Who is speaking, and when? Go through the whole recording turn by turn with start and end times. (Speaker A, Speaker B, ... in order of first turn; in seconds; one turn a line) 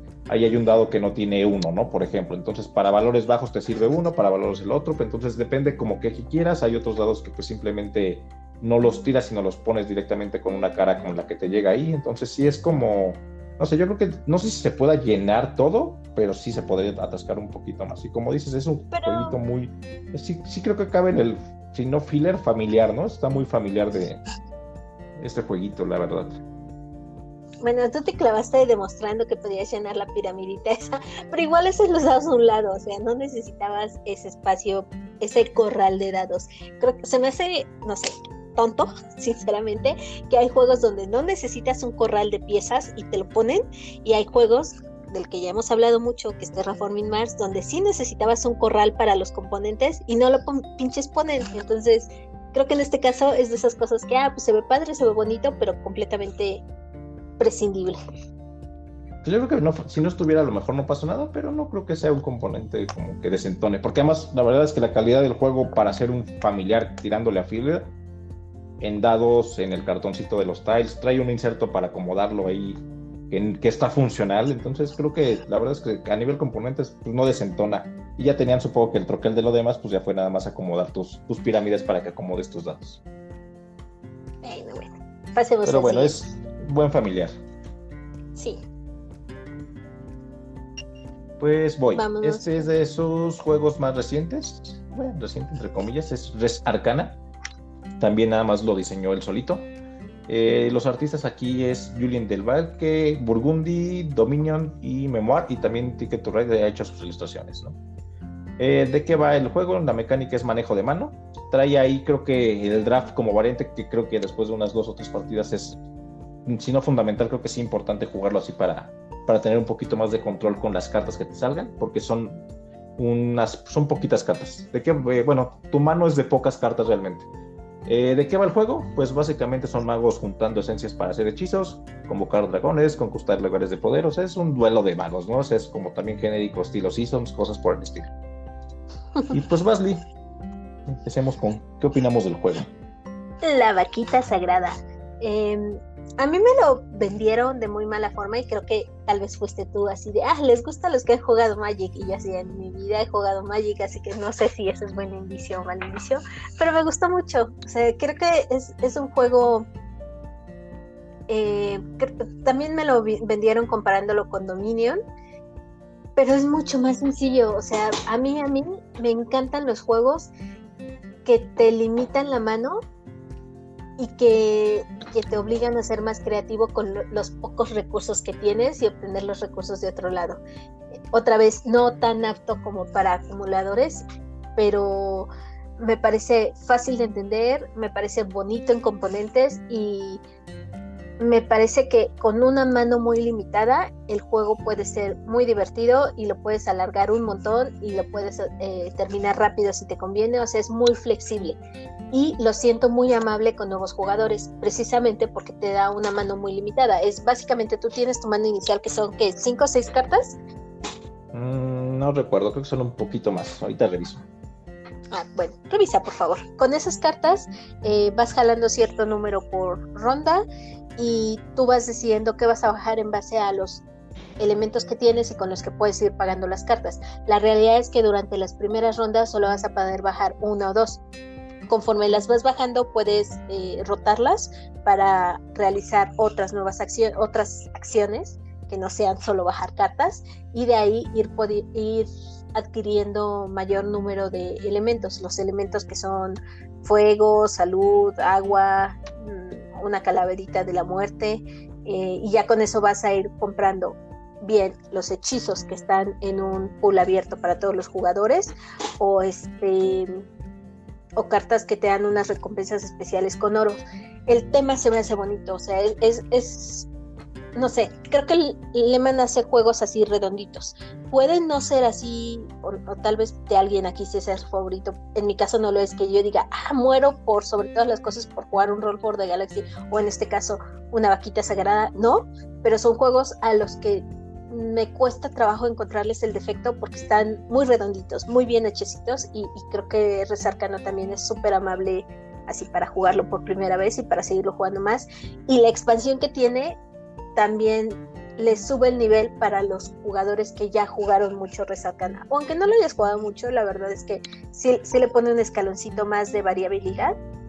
Speaker A: 0.3-24.2
Speaker B: 18.9-19.4
Speaker A: 25.2-26.4
Speaker B: 27.6-56.6
Speaker B: 57.4-58.0
Speaker A: 59.2-67.9
Speaker A: 68.8-83.0
Speaker B: 84.4-86.2
Speaker A: 85.7-87.3
Speaker B: 88.4-88.6
Speaker A: 91.4-97.2
Speaker B: 92.0-92.7
Speaker A: 98.0-99.7
Speaker A: 100.3-107.8
Speaker A: 108.6-115.8
Speaker A: 116.5-122.5
Speaker A: 123.0-127.3
Speaker A: 127.9-138.1
Speaker A: 139.3-140.1
Speaker A: 140.9-142.7
Speaker B: 143.4-159.7
Speaker B: 161.3-165.0
Speaker B: 166.2-170.3
Speaker B: 171.2-172.8
Speaker B: 174.0-180.4
Speaker B: 181.1-184.1
Speaker B: 184.6-190.2
Speaker B: 191.2-201.6
Speaker B: 202.1-210.4
Speaker A: 211.3-214.2
Speaker B: 215.1-220.4
Speaker B: 221.0-223.8
Speaker B: 224.4-231.0
Speaker B: 231.7-260.2
Speaker B: 261.2-266.9
Speaker B: 267.6-296.8
Speaker B: 297.4-307.2